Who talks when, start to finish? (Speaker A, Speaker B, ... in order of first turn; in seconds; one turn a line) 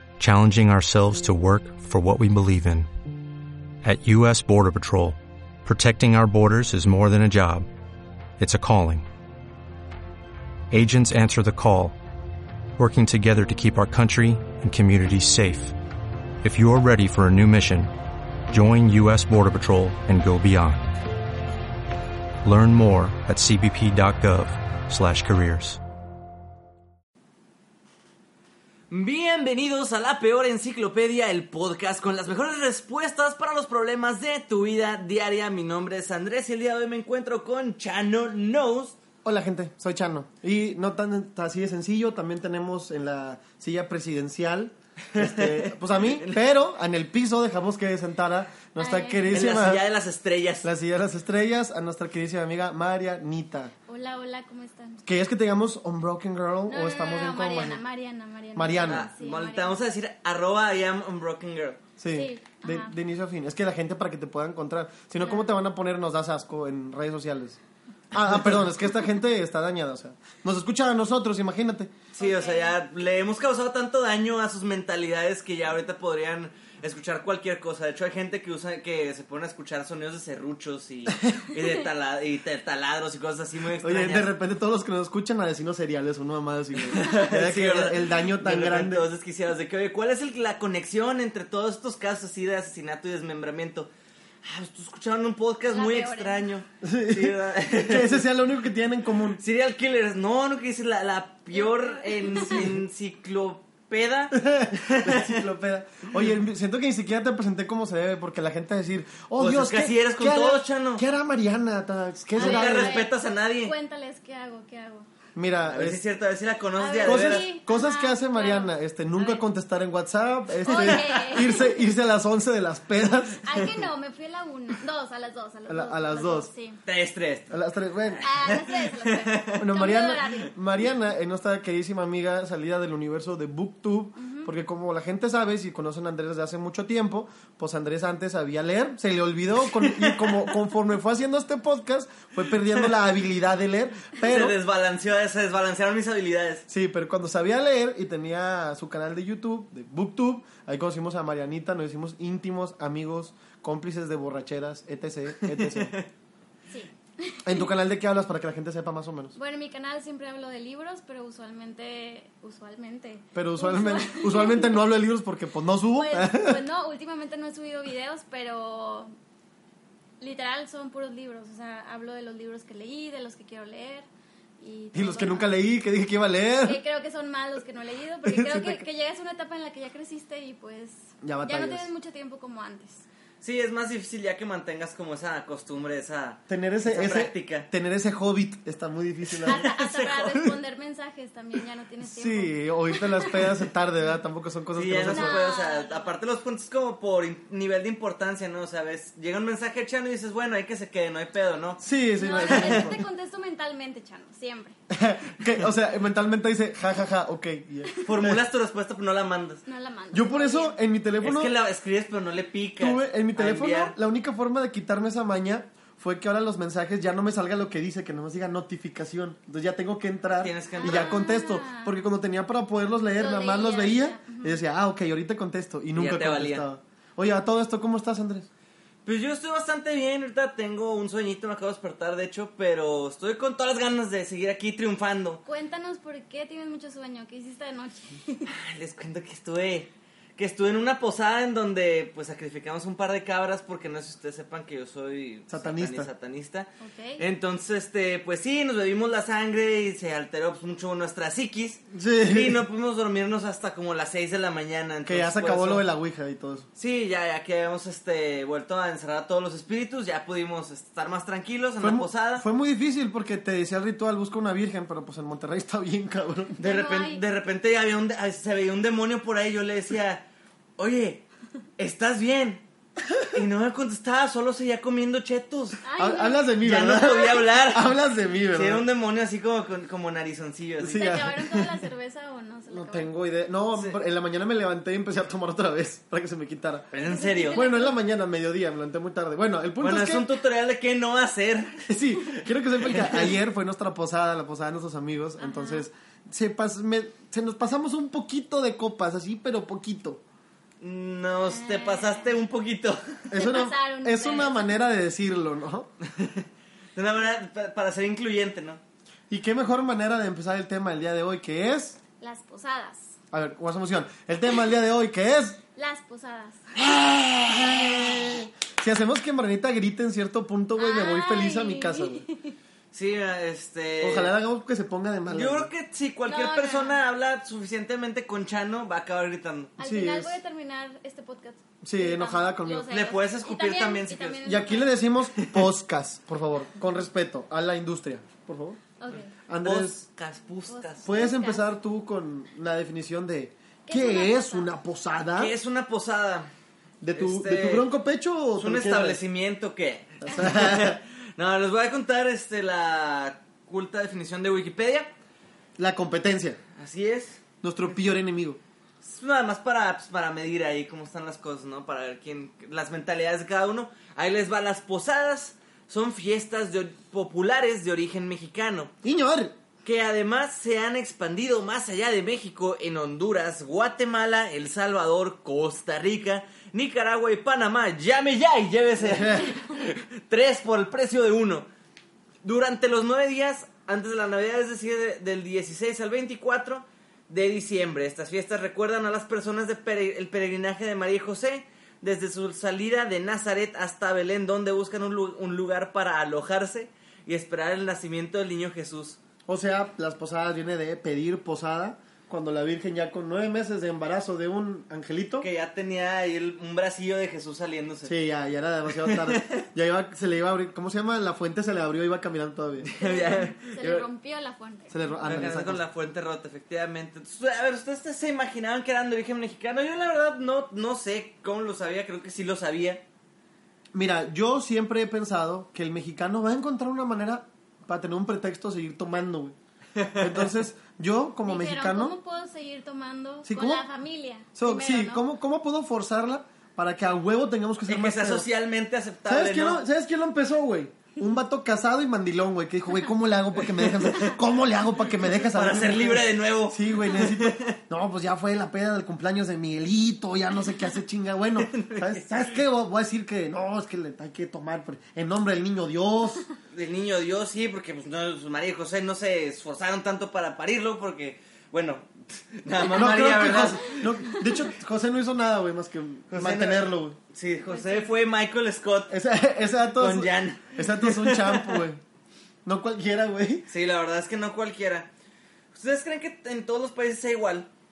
Speaker A: 0.2-2.9
Speaker A: 3.8-7.7
Speaker A: 8.4-9.1
Speaker A: 10.7-12.0
Speaker A: 12.8-15.8
Speaker A: 16.4-17.9
Speaker A: 18.5-20.9
Speaker A: 22.4-25.8
Speaker B: 28.9-39.0
Speaker C: 39.2-49.9
Speaker B: 45.1-46.4
Speaker D: 48.8-49.5
Speaker B: 49.3-50.7
Speaker C: 50.6-53.7
Speaker D: 53.9-55.0
Speaker C: 55.0-57.8
Speaker D: 56.7-59.8
Speaker C: 58.5-59.0
Speaker B: 58.8-61.8
Speaker C: 62.0-67.6
Speaker D: 62.1-62.9
Speaker D: 65.2-65.5
Speaker C: 68.1-71.9
Speaker B: 72.2-84.3
Speaker D: 72.2-72.8
Speaker C: 83.8-89.1
Speaker B: 86.8-93.9
Speaker B: 94.4-98.2
Speaker D: 95.7-96.5
Speaker C: 96.8-99.4
Speaker B: 99.4-105.5
Speaker D: 101.5-102.6
Speaker C: 104.4-113.0
Speaker B: 109.4-111.0
Speaker B: 112.4-113.7
Speaker D: 112.4-115.1
Speaker C: 115.3-116.0
Speaker B: 115.6-117.5
Speaker D: 116.8-119.4
Speaker C: 117.0-123.7
Speaker D: 120.7-121.8
Speaker B: 120.7-121.0
Speaker D: 123.4-126.8
Speaker C: 125.7-126.5
Speaker B: 126.9-127.5
Speaker C: 127.5-128.2
Speaker B: 128.2-129.6
Speaker D: 128.2-130.6
Speaker C: 129.6-144.6
Speaker D: 134.2-134.5
Speaker B: 139.8-140.4
Speaker B: 144.2-146.7
Speaker C: 146.7-156.0
Speaker B: 155.4-156.1
Speaker D: 156.7-157.7
Speaker C: 157.4-159.3
Speaker D: 159.3-164.8
Speaker C: 163.3-166.6
Speaker D: 165.9-169.1
Speaker D: 170.2-174.1
Speaker D: 174.6-175.5
Speaker C: 174.9-176.8
Speaker D: 176.6-183.1
Speaker C: 178.2-178.8
Speaker C: 181.2-181.9
Speaker B: 183.4-187.7
Speaker C: 186.5-189.6
Speaker B: 189.3-190.6
Speaker D: 189.5-193.4
Speaker C: 192.0-195.5
Speaker B: 194.7-201.8
Speaker D: 195.1-196.2
Speaker C: 201.8-203.0
Speaker D: 202.2-204.8
Speaker B: 202.4-202.9
Speaker C: 204.9-208.4
Speaker B: 208.0-209.6
Speaker D: 209.7-210.8
Speaker C: 210.1-211.6
Speaker B: 211.2-213.9
Speaker C: 212.8-228.5
Speaker B: 220.4-221.1
Speaker D: 220.8-222.0
Speaker D: 223.2-224.6
Speaker B: 225.9-226.7
Speaker B: 229.1-235.4
Speaker D: 235.4-238.5
Speaker B: 238.5-255.8
Speaker C: 245.5-246.1
Speaker D: 246.8-247.2
Speaker C: 251.9-252.6
Speaker C: 255.1-256.7
Speaker B: 256.8-262.4
Speaker C: 261.8-266.6
Speaker B: 266.6-270.2
Speaker D: 266.6-267.2
Speaker B: 270.8-271.2
Speaker B: 271.8-272.6
Speaker B: 273.2-275.8
Speaker D: 275.8-277.4
Speaker C: 276.0-278.9
Speaker B: 276.6-277.9
Speaker B: 278.5-281.1
Speaker C: 280.8-281.8
Speaker D: 280.9-283.1
Speaker C: 282.7-286.9
Speaker B: 286.9-287.7
Speaker D: 287.1-287.9
Speaker C: 287.5-290.3
Speaker B: 289.8-291.9
Speaker C: 291.9-300.2
Speaker B: 292.8-293.4
Speaker D: 295.4-295.9
Speaker B: 300.8-303.3
Speaker D: 301.5-302.3
Speaker C: 303.3-305.9
Speaker D: 303.3-304.6
Speaker B: 306.1-308.8
Speaker C: 309.3-312.0
Speaker D: 312.2-313.1
Speaker C: 313.3-315.6
Speaker D: 315.8-316.6
Speaker C: 316.8-322.2
Speaker D: 320.8-322.6
Speaker B: 322.9-324.3
Speaker C: 324.0-325.7
Speaker B: 325.3-329.8
Speaker D: 326.3-327.0
Speaker D: 329.8-335.0
Speaker C: 329.8-330.4
Speaker C: 331.8-332.9
Speaker B: 332.9-334.5
Speaker C: 334.4-338.8
Speaker B: 335.4-335.7
Speaker D: 339.0-339.3
Speaker C: 339.5-340.0
Speaker B: 339.6-341.1
Speaker D: 340.7-341.7
Speaker C: 341.0-345.5
Speaker D: 343.9-344.7
Speaker B: 345.4-346.5
Speaker C: 347.0-349.2
Speaker B: 347.1-347.9
Speaker B: 348.6-355.1
Speaker C: 350.2-351.0
Speaker C: 355.8-356.6
Speaker B: 356.8-357.4
Speaker C: 357.6-358.6
Speaker B: 359.0-368.9
Speaker C: 369.0-369.6
Speaker B: 369.8-381.7
Speaker C: 379.0-379.5
Speaker B: 382.4-399.2
Speaker C: 399.5-405.5
Speaker B: 405.4-408.2
Speaker C: 408.1-412.9
Speaker B: 408.9-409.6
Speaker B: 412.8-414.0
Speaker D: 413.0-415.4
Speaker C: 414.9-415.8
Speaker B: 415.2-423.0
Speaker C: 423.9-429.6
Speaker B: 430.0-430.5
Speaker C: 430.1-432.2
Speaker D: 431.4-435.2
Speaker C: 433.4-433.9
Speaker C: 434.5-438.5
Speaker B: 437.9-439.8
Speaker C: 439.3-456.5
Speaker B: 443.6-444.4
Speaker B: 445.2-447.8
Speaker B: 451.6-452.3
Speaker B: 456.7-464.1
Speaker C: 462.9-467.2
Speaker B: 466.3-469.1
Speaker D: 467.7-468.1
Speaker C: 469.1-472.0
Speaker B: 469.9-471.9
Speaker C: 472.6-473.7
Speaker B: 473.7-475.1
Speaker B: 475.7-477.7